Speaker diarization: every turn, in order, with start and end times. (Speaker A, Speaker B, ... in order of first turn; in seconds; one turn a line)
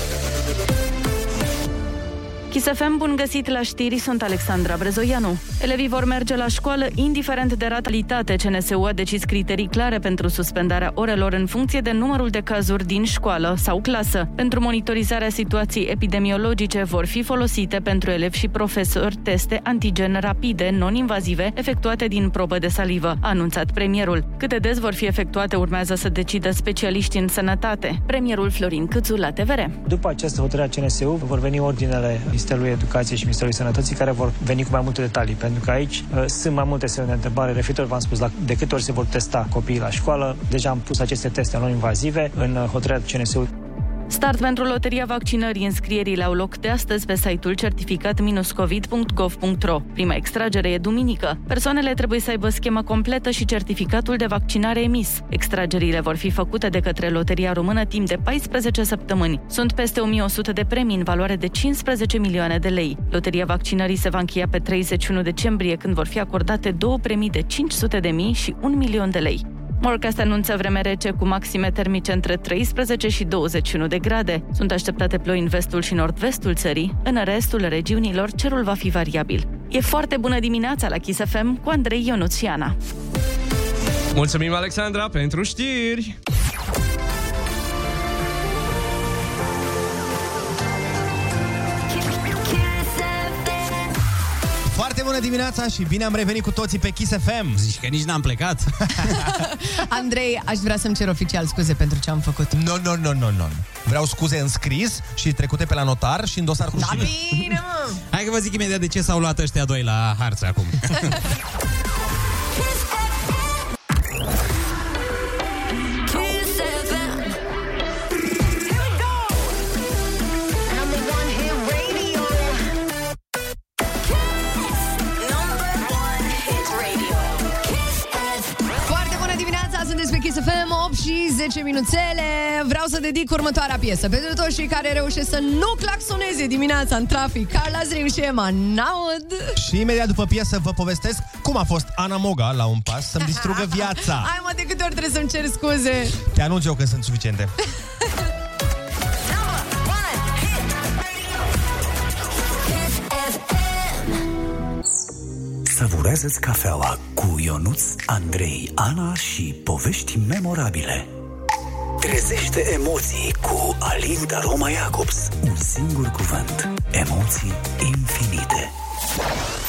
Speaker A: 2.5-29.7
Speaker B: 29.8-43.5
Speaker A: 44.1-82.8
Speaker C: 84.1-86.2
Speaker D: 91.9-93.8
Speaker E: 94.7-97.6
Speaker F: 97.5-99.2
Speaker G: 99.2-102.6
Speaker E: 102.5-107.1
Speaker G: 106.8-108.0
Speaker F: 108.1-111.2
Speaker D: 112.5-113.5
Speaker D: 116.0-117.3
Speaker D: 118.6-119.5
Speaker D: 120.7-122.5
Speaker D: 125.0-128.5
Speaker G: 128.8-139.6
Speaker E: 139.6-144.3
Speaker G: 143.2-146.2
Speaker E: 146.3-147.5
Speaker D: 149.3-150.9
Speaker D: 152.7-154.0
Speaker H: 155.7-161.1
Speaker H: 162.0-168.7